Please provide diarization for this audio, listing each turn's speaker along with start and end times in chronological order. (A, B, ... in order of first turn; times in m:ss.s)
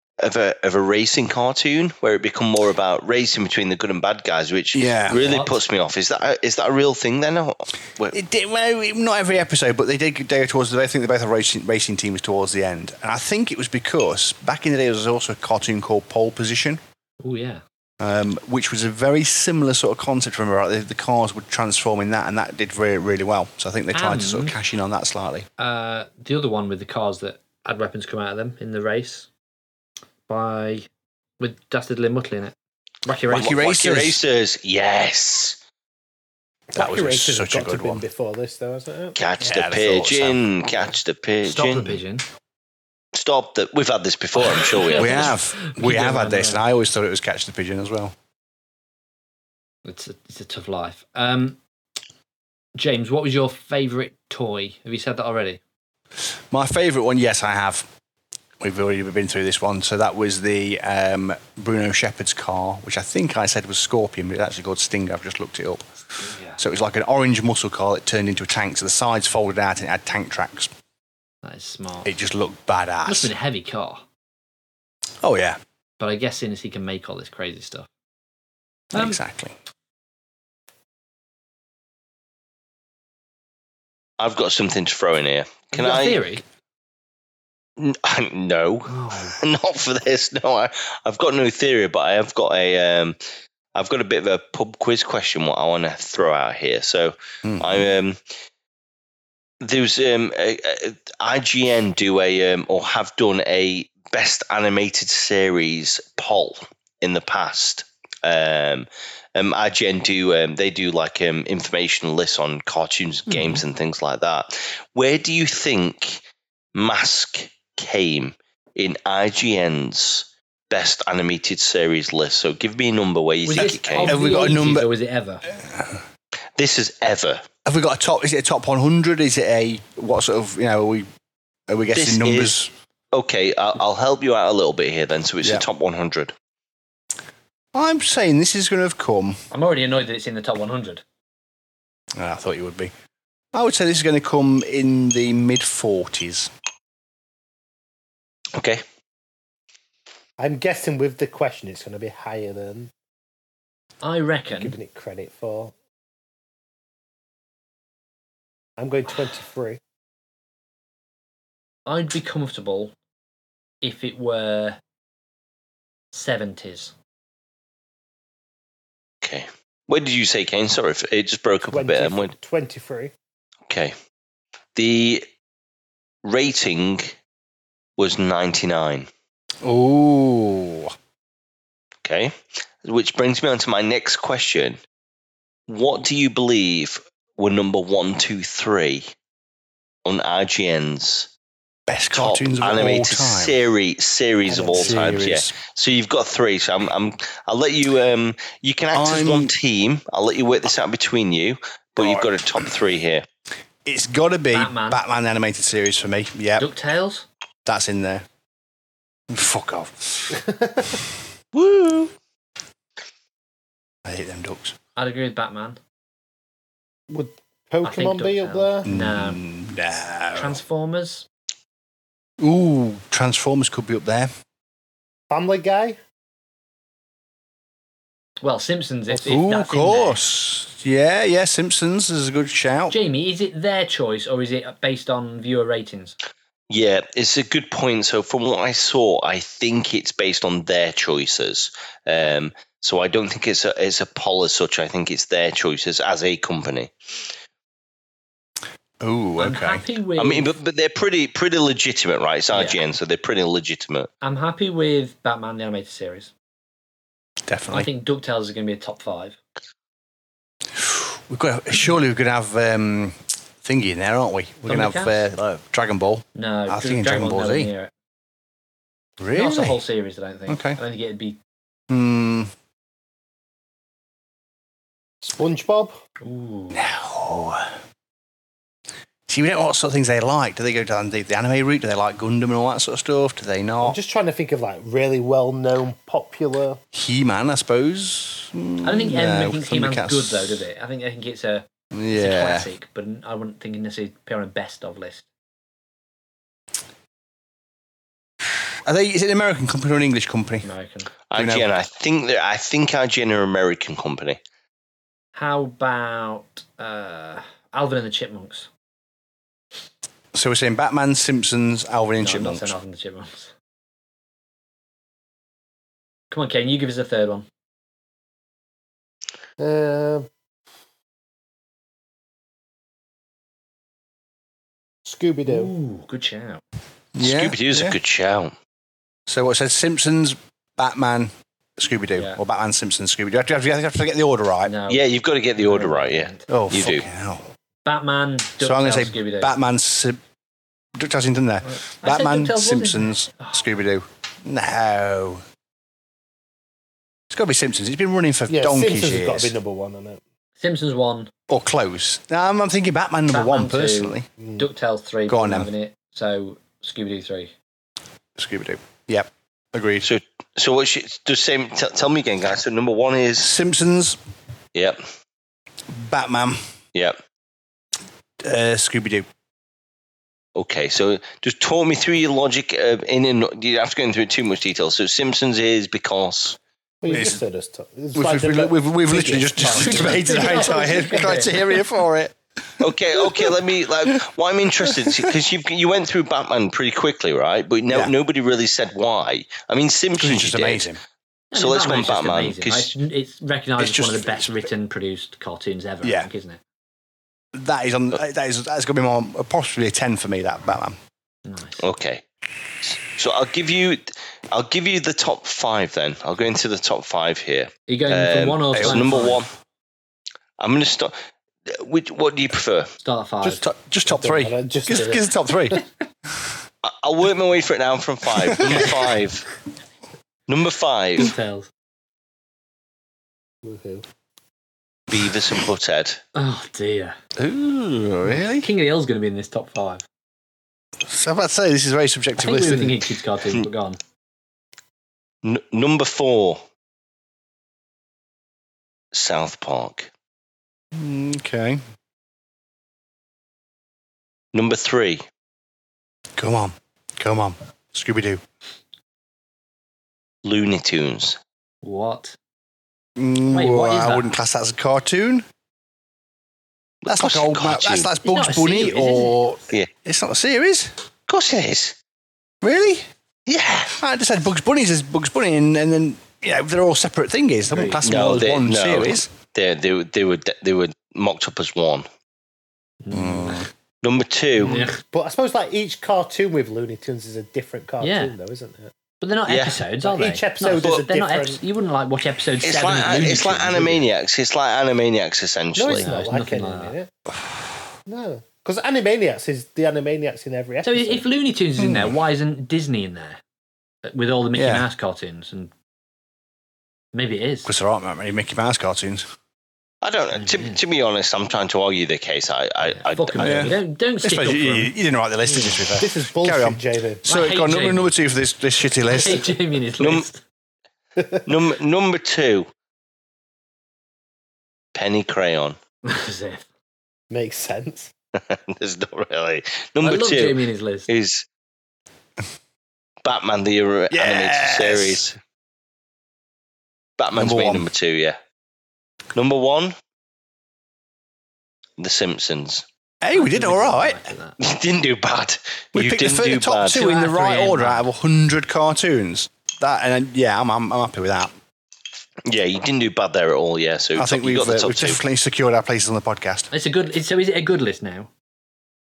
0:00.2-0:08.2 A
0:04.7-0:05.2 B
0:05.1-0:05.6 C
0:08.1-0:16.8 B
0:17.2-0:17.6 C
0:18.0-0:25.5 B
0:23.9-0:24.6 C
0:25.6-0:29.3 C
0:30.3-0:30.9 C
0:31.4-0:32.5 C
0:33.0-0:33.6 C
0:33.3-0:34.2 B
0:33.4-0:35.6 A
0:36.7-0:39.2 D
0:36.8-0:38.0 B
0:39.2-0:42.0 A
0:39.4-0:40.4 B
0:41.4-0:42.2 C
0:43.1-0:45.3 A
0:44.4-0:46.6 C
0:44.9-0:48.1 B
0:49.8-0:51.6 C
0:52.8-0:55.6 C
0:56.5-0:57.9 B
0:58.6-1:05.8 B
1:06.2-1:06.6 C
1:06.6-1:10.7 B
1:11.4-1:12.1 C
1:12.0-1:13.3 B
1:13.0-1:14.0 C
1:15.2-1:15.6 B
1:16.0-1:17.9 C
1:18.9-1:19.5 B
1:18.9-1:19.2 C
1:24.2-1:26.2 A
1:25.7-1:26.4 C
1:27.8-1:33.2 A
1:28.9-1:29.4 C
1:33.7-1:38.2 A
1:37.4-1:37.9 B
1:39.6-1:56.2 A
1:53.3-1:53.6 C
1:56.7-2:04.2 A
2:03.4-2:05.4 C
2:04.0-2:04.9 B
2:05.6-2:06.0 B
2:06.6-2:07.4 A
2:07.6-2:11.0 B
2:11.7-2:12.7 B
2:11.9-2:12.6 A
2:13.1-2:16.3 A
2:17.7-2:19.4 B
2:19.5-2:21.0 C
2:22.2-2:22.9 B
2:23.5-2:26.5 B
2:28.5-2:28.8 A
2:30.4-2:32.9 D
2:34.0-2:34.7 C
2:34.5-2:35.7 D
2:38.8-2:39.8 D
2:41.8-2:42.9 C
2:43.8-2:44.8 C
2:46.1-2:46.9 C
2:49.2-2:52.3 A
2:51.7-2:53.1 D
2:53.7-2:53.9 A
2:54.7-2:55.2 A
2:56.2-2:57.2 A
2:58.0-2:59.1 A
2:59.6-3:00.9 B
3:02.0-3:04.8 A
3:05.7-3:09.1 A
3:10.0-3:11.3 A
3:11.9-3:13.6 B
3:12.1-3:23.2 A
3:14.4-3:15.2 D
3:14.7-3:15.6 B
3:18.9-3:19.5 B
3:22.0-3:22.3 B
3:23.8-3:26.7 B
3:24.5-3:25.0 C
3:26.6-3:27.2 C
3:27.6-3:28.2 B
3:29.3-3:30.4 B
3:30.4-3:31.0 D
3:31.5-3:32.1 A
3:34.0-3:34.7 B
3:35.0-3:35.8 C
3:37.1-3:38.9 D
3:37.8-3:39.4 C
3:38.8-3:40.6 B
3:40.3-3:41.3 C
3:42.4-3:44.3 B
3:45.3-3:46.0 D
3:48.4-3:50.2 C
3:49.2-3:53.0 B
3:52.9-3:56.2 C
3:56.7-4:06.9 A
4:09.0-4:09.8 B
4:09.4-4:10.5 C
4:10.2-4:14.1 A
4:12.5-4:12.8 C
4:14.2-4:16.3 C
4:17.4-4:17.9 B
4:17.7-4:19.4 C
4:20.7-4:27.7 B
4:24.7-4:25.2 C
4:26.3-4:27.9 C
4:29.2-4:29.8 B
4:29.3-4:31.4 C
4:30.5-4:30.8 B
4:31.9-4:32.5 B
4:35.2-4:35.9 D
4:36.2-4:36.8 C
4:36.7-4:37.7 B
4:39.3-4:44.0 B
4:43.8-4:46.8 D
4:46.9-4:50.6 B
4:48.8-4:55.2 C
4:51.9-4:52.7 B
4:58.4-5:00.7 B
5:00.6-5:01.1 C
5:01.3-5:04.4 A
5:01.3-5:01.7 B
5:05.3-5:08.7 C
5:10.3-5:12.7 B
5:12.2-5:13.5 C
5:16.3-5:17.4 C
5:19.6-5:20.3 D
5:25.0-5:25.7 D
5:25.4-5:26.6 C
5:27.1-5:28.0 B
5:27.2-5:28.5 A
5:29.3-5:34.7 B
5:34.6-5:35.0 C
5:34.9-5:37.0 A
5:35.6-5:36.5 C
5:36.5-5:37.5 B
5:37.8-5:39.5 C
5:38.6-5:40.2 B
5:41.0-5:45.4 B
5:41.6-5:43.6 C
5:47.3-5:49.5 B
5:48.5-5:50.2 D
5:50.6-5:51.3 C
5:51.5-5:54.2 B
5:53.3-5:57.5 C
5:54.4-5:54.7 D
5:55.3-5:55.7 B
5:58.4-6:00.1 B
6:00.0-6:03.5 A
6:03.4-6:04.2 B
6:04.7-6:05.0 A
6:05.9-6:06.6 B
6:08.4-6:09.2 B
6:10.5-6:16.6 A
6:17.0-6:21.4 D
6:17.1-6:17.4 B
6:18.1-6:24.2 B
6:19.6-6:21.6 C
6:22.8-6:30.9 A
6:24.8-6:25.3 B
6:30.2-6:31.0 B
6:31.5-6:36.6 C
6:31.5-6:32.9 A
6:33.8-6:34.7 B
6:36.0-6:36.3 B
6:37.5-6:41.0 B
6:41.4-6:41.8 C
6:41.8-6:42.2 A
6:42.8-6:49.5 A
6:47.9-6:49.4 C
6:48.7-6:49.3 B
6:50.6-6:51.2 A
6:51.7-6:52.9 A
6:53.0-6:53.6 C
6:53.4-6:55.8 B
6:54.1-6:55.8 D
6:56.8-6:59.5 A
6:58.4-6:59.1 B
7:00.5-7:01.3 A
7:01.2-7:01.7 C
7:03.6-7:04.0 D
7:05.1-7:06.2 A
7:06.3-7:07.2 C
7:07.4-7:08.7 B
7:08.2-7:10.0 C
7:11.0-7:13.1 B
7:12.4-7:14.0 C
7:15.4-7:16.6 A
7:19.1-7:20.1 A
7:20.9-7:21.8 B
7:24.5-7:25.2 A
7:26.4-7:28.4 B
7:30.4-7:31.4 A
7:31.8-7:32.4 C
7:33.2-7:35.4 B
7:33.5-7:34.3 C
7:37.0-7:38.1 A
7:37.0-7:40.9 B
7:38.2-7:39.4 C
7:41.3-7:42.0 A
7:42.6-7:43.0 B
7:43.5-7:44.0 A
7:44.0-7:49.3 B
7:47.7-7:48.0 C
7:48.0-7:52.1 A
7:53.0-7:53.7 C
7:53.1-7:53.7 B
7:54.0-7:54.9 A
7:54.6-7:55.0 C
7:54.6-7:58.9 D
7:58.0-7:58.3 C
7:59.2-8:04.0 C
7:59.5-7:59.8 A
8:00.0-8:01.6 D
8:02.6-8:06.1 A
8:05.8-8:07.1 D
8:05.9-8:07.0 C
8:08.1-8:11.2 D
8:10.8-8:13.4 C
8:11.8-8:12.1 B
8:14.0-8:15.7 C
8:14.5-8:14.8 B
8:17.1-8:17.7 C
8:17.6-8:19.2 B
8:20.0-8:23.7 A
8:20.3-8:20.8 C
8:22.9-8:24.9 C
8:23.4-8:29.5 B
8:25.5-8:25.8 C
8:26.0-8:27.2 D
8:27.2-8:28.1 C
8:29.1-8:30.4 C
8:30.0-8:30.2 A
8:31.4-8:32.7 A
8:34.9-8:35.8 A
8:36.0-8:36.7 C
8:37.3-8:38.1 D
8:38.3-8:41.4 A
8:40.0-8:41.1 C
8:43.2-8:45.4 A
8:44.1-8:45.2 B
8:47.2-8:48.4 A
8:47.3-8:47.9 B
8:49.3-8:49.9 A
8:52.0-8:52.8 A
8:53.2-8:54.2 B
8:53.3-8:54.6 C
8:54.6-8:57.1 A
8:55.9-9:01.5 B
8:57.0-8:58.0 C
9:02.4-9:05.2 A
9:04.2-9:06.7 B
9:06.7-9:08.3 C